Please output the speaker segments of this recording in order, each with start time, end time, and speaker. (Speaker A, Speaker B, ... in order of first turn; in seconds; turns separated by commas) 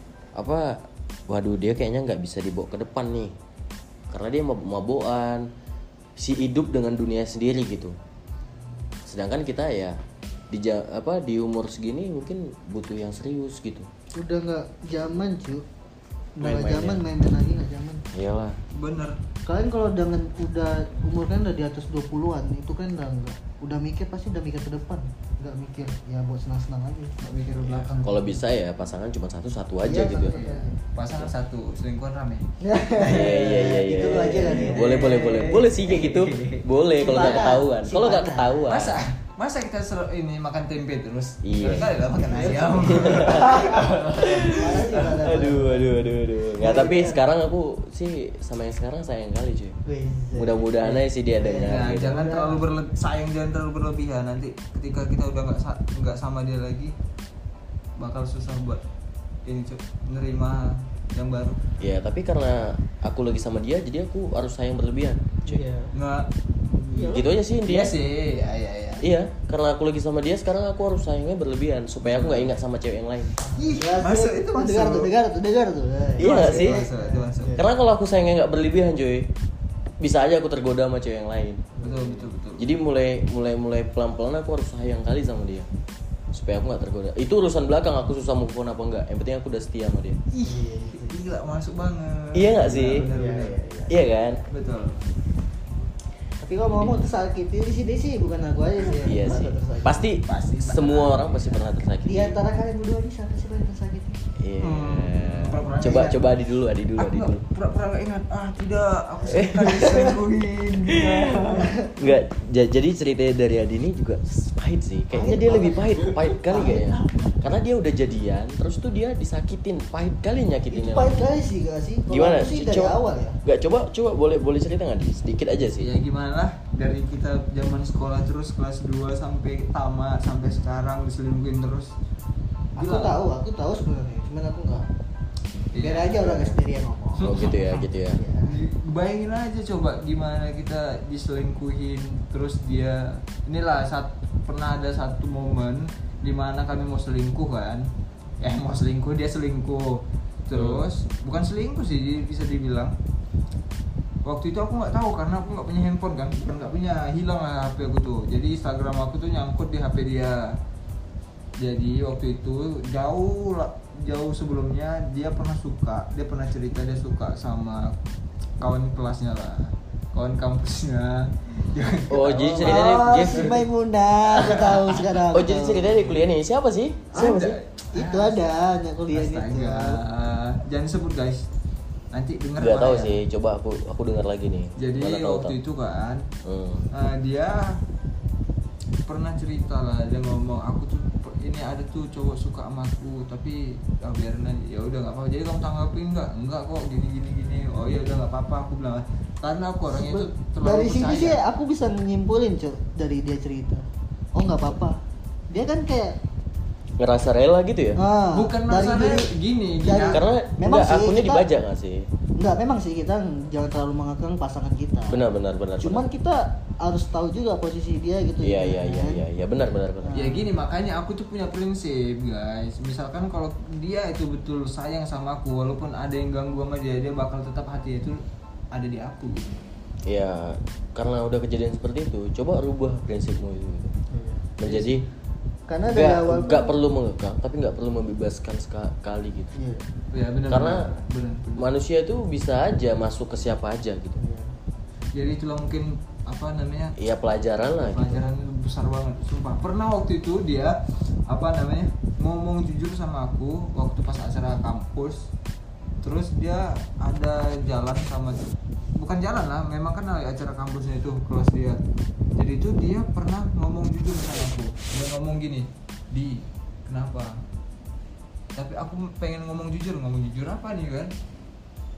Speaker A: 0.3-3.3, Speaker A: 4.1-5.5, Speaker A: 6.2-8.0, Speaker A: 9.0-10.0, Speaker A: 10.5-13.9, Speaker B: 14.2-15.7, Speaker B: 16.4-18.0, Speaker A: 16.4-17.0, Speaker A: 18.1-18.6, Speaker C: 18.7-19.2, Speaker B: 19.4-27.1, Speaker C: 27.2-28.4, Speaker A: 27.6-30.4, Speaker B: 29.8-30.8, Speaker C: 30.3-36.6, Speaker B: 32.6-35.3, Speaker A: 33.0-39.0, Speaker B: 36.9-38.7, Speaker C: 38.6-45.2, Speaker A: 41.4-42.0, Speaker B: 41.8-43.9, Speaker A: 42.6-49.8, Speaker B: 44.4-47.2, Speaker B: 49.9-52.6, Speaker A: 50.3-52.2, Speaker C: 51.6-56.9, Speaker C: 58.0-58.8, Speaker C: 59.4-61.6, Speaker A: 61.8-65.6, Speaker B: 65.5-65.9, Speaker C: 65.9-69.0, Speaker B: 66.9-67.3, Speaker A: 67.0-68.0, Speaker A: 69.0-73.4, Speaker C: 72.0-72.5, Speaker C: 73.5-75.1, Speaker B: 73.5-77.7, Speaker A: 76.2-76.8, Speaker C: 76.2-77.6, Speaker A: 77.5-79.3, Speaker A: 80.0-81.7, Speaker B: 81.8-82.3, Speaker C: 81.8-82.7, Speaker A: 82.6-85.7, Speaker A: 86.3-90.2, Speaker C: 90.3-93.7, Speaker B: 90.4-91.2, Speaker A: 92.3-93.1, Speaker B: 93.0-93.9, Speaker A: 93.9-94.4, Speaker C: 94.5-95.0, Speaker B: 96.4-100.1, Speaker A: 99.0-102.4, Speaker C: 100.3-101.8, Speaker B: 102.0-104.2, Speaker A: 104.3-107.4, Speaker C: 104.6-106.4, Speaker C: 107.0-111.8, Speaker A: 109.2-110.2, Speaker A: 110.8-121.2, Speaker B: 111.7-111.9, Speaker B: 115.1-116.9, Speaker B: 120.7-123.4, Speaker A: 122.1-125.9, Speaker C: 125.8-131.9, Speaker B: 132.8-134.9, Speaker C: 132.8-133.2, Speaker C: 135.7-136.5, Speaker B: 135.8-137.5, Speaker C: 137.2-137.8, Speaker A: 137.2-138.2, Speaker B: 138.1-138.6, Speaker C: 138.4-147.9, Speaker C: 148.4-152.9, Speaker A: 150.5-150.9, Speaker C: 154.2-160.6, Speaker C: 161.6-167.9, Speaker C: 168.6-173.6, Speaker A: 172.1-173.6, Speaker B: 172.6-176.1, Speaker A: 174.3-177.6, Speaker C: 174.4-175.0, Speaker C: 177.1-178.5, Speaker B: 177.1-177.4, Speaker B: 177.9-180.0, Speaker C: 179.1-181.4, Speaker C: 182.1-183.2, Speaker A: 182.6-185.6, Speaker C: 184.8-186.3, Speaker A: 186.4-186.9, Speaker C: 186.9-187.8, Speaker C: 189.1-201.4, Speaker B: 199.9-206.2, Speaker A: 207.0-208.0, Speaker B: 207.9-209.3, Speaker C: 208.3-210.2, Speaker B: 209.8-211.4, Speaker A: 210.1-212.1, Speaker B: 212.4-215.2, Speaker A: 215.1-216.1, Speaker B: 215.8-219.2, Speaker A: 218.4-220.2, Speaker B: 220.0-220.5, Speaker C: 220.1-228.2, Speaker C: 228.7-229.5, Speaker A: 230.1-233.9, Speaker B: 234.1-234.4, Speaker A: 234.6-235.1, Speaker C: 234.6-235.0, Speaker B: 235.7-236.7, Speaker A: 235.8-239.5, Speaker B: 239.5-239.8, Speaker C: 240.1-241.7, Speaker A: 240.5-240.9, Speaker A: 241.6-244.2, Speaker B: 244.2-244.5, Speaker C: 245.1-246.9, Speaker A: 247.0-248.2, Speaker C: 247.8-255.3, Speaker C: 256.0-261.8, Speaker C: 262.4-267.4, Speaker C: 268.5-271.1